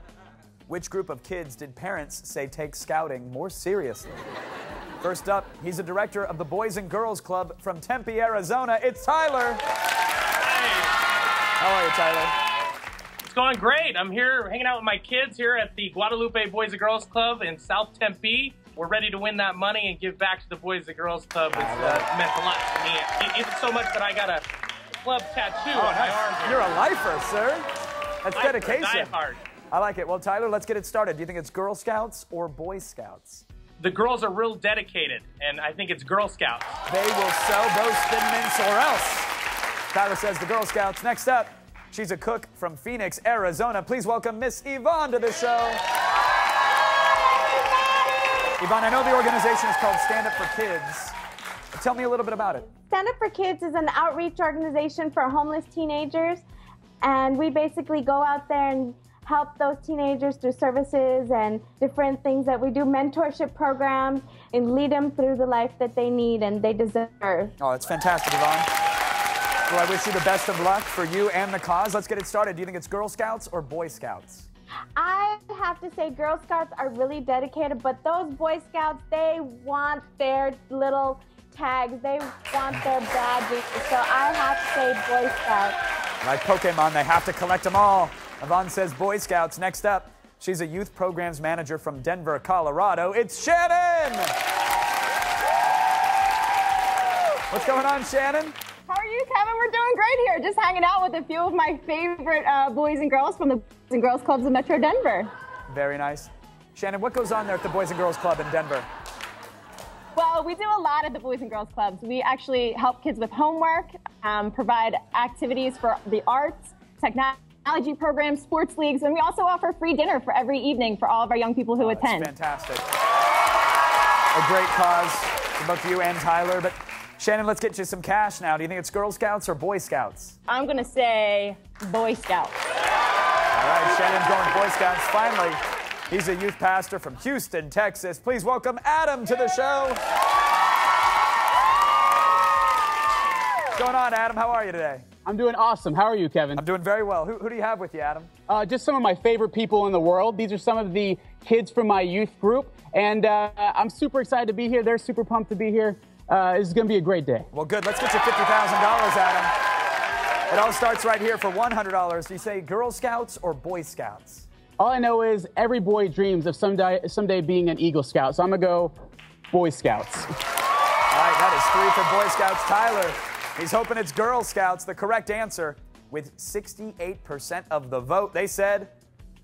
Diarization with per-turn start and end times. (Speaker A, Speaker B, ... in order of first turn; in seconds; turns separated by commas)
Speaker A: 0.7-4.2, Speaker A: 5.0-9.6, Speaker B: 10.4-10.9, Speaker A: 11.6-12.3, Speaker B: 13.2-24.4, Speaker A: 21.6-22.1, Speaker B: 25.0-26.7, Speaker A: 25.7-27.7, Speaker A: 28.2-29.1, Speaker B: 28.3-29.4, Speaker A: 29.7-33.5, Speaker B: 33.8-36.7, Speaker A: 36.9-39.3, Speaker A: 39.9-45.8, Speaker A: 48.6-51.1, Speaker A: 51.7-52.7, Speaker C: 52.7-56.4, Speaker C: 57.0-67.5, Speaker A: 67.6-68.7, Speaker A: 69.7-74.5, Speaker C: 75.0-85.8, Speaker A: 86.2-94.3, Speaker A: 97.5-98.5, Speaker D: 98.9-105.3, Speaker A: 105.7-108.9, Speaker D: 110.2-122.3, Speaker A: 121.8-122.8, Speaker A: 124.3-130.4, Speaker D: 130.5-132.5, Speaker A: 133.5-140.0, Speaker A: 143.8-145.0, Speaker E: 145.2-146.6, Speaker A: 146.5-148.3, Speaker E: 148.5-157.5, Speaker A: 157.5-159.5, Speaker A: 160.5-164.5, Speaker E: 164.8-168.9, Speaker E: 169.5-170.3, Speaker A: 171.1-178.9